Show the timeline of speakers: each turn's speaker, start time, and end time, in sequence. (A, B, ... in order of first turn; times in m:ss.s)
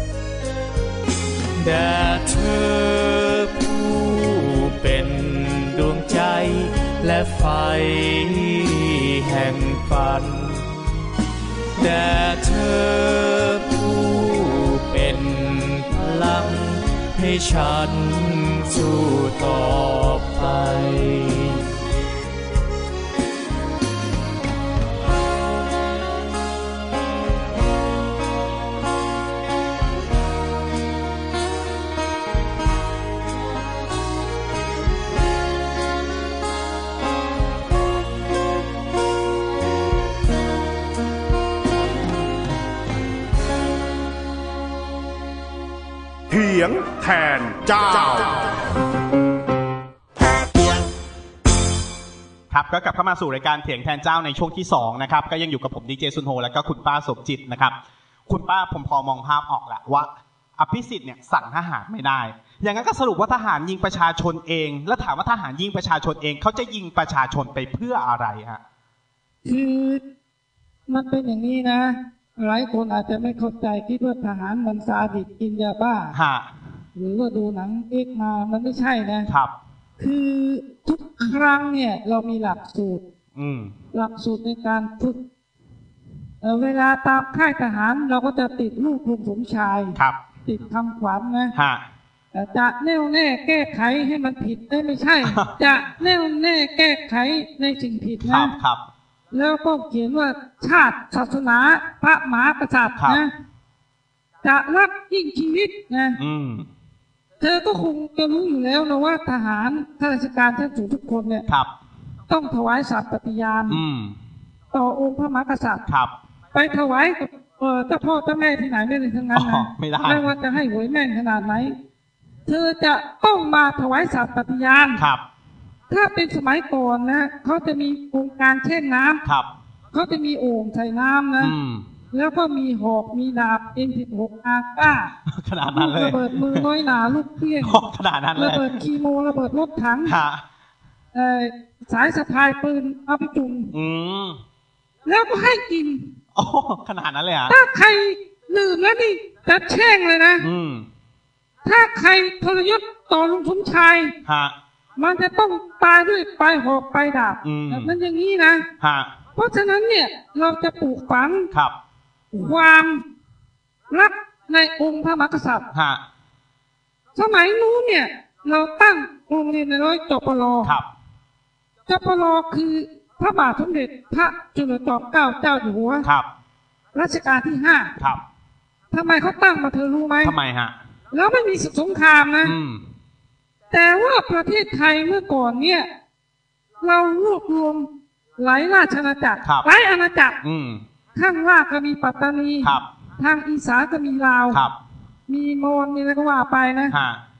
0:01.6-0:10.7 A
0:11.8-0:21.7 A
0:46.3-0:48.4 B
0:52.5-0:57.7 C
0:58.3-1:08.6 C
1:09.4-1:10.0 D
1:10.9-1:16.2 D
1:16.1-1:16.5 C
1:17.0-1:19.3 D
1:19.3-1:19.5 C
1:20.0-1:23.0 D
1:23.4-1:23.7 C
1:23.9-1:25.2 D
1:26.4-1:31.5 D
1:31.5-1:31.8 C
1:32.3-1:38.5 D
1:35.2-1:35.5 C
1:38.2-1:38.8 C
1:39.3-1:43.3 D
1:44.4-1:46.2 D
1:46.2-1:46.7 C
1:47.4-1:51.4 D
1:52.3-1:53.8 D
1:53.7-1:54.2 C
1:54.7-1:55.8 D
1:55.9-1:56.1 C
1:56.5-2:01.7 D
1:59.3-2:00.3 C
2:02.5-2:05.0 D
2:05.0-2:05.2 C
2:05.9-2:09.2 D
2:09.9-2:11.6 D
2:11.4-2:11.9 C
2:12.1-2:15.1 D
2:15.3-2:16.7 C
2:15.7-2:17.8 D
2:17.6-2:18.7 C
2:18.4-2:20.2 D
2:20.0-2:20.4 C
2:21.1-2:23.7 D
2:23.7-2:24.4 C
2:25.0-2:26.1 D
2:26.4-2:27.6 C
2:27.5-2:30.5 D
2:30.4-2:30.9 C
2:31.6-2:34.1 D
2:34.2-2:34.5 C
2:35.0-2:38.7 D
2:37.4-2:37.9 C
2:38.8-2:39.1 C
2:39.4-2:41.5 D
2:42.3-2:43.0 D
2:43.9-2:45.7 D
2:45.7-2:46.0 C
2:47.2-2:50.8 D
2:51.9-2:56.1 D
2:56.9-2:58.0 D
2:58.9-3:00.4 D
3:00.2-3:00.7 C
3:01.1-3:02.6 D
3:02.4-3:02.8 C
3:03.7-3:05.9 D
3:06.8-3:10.4 D
3:10.4-3:10.8 C
3:11.1-3:14.6 D
3:15.3-3:17.0 D
3:16.9-3:17.2 C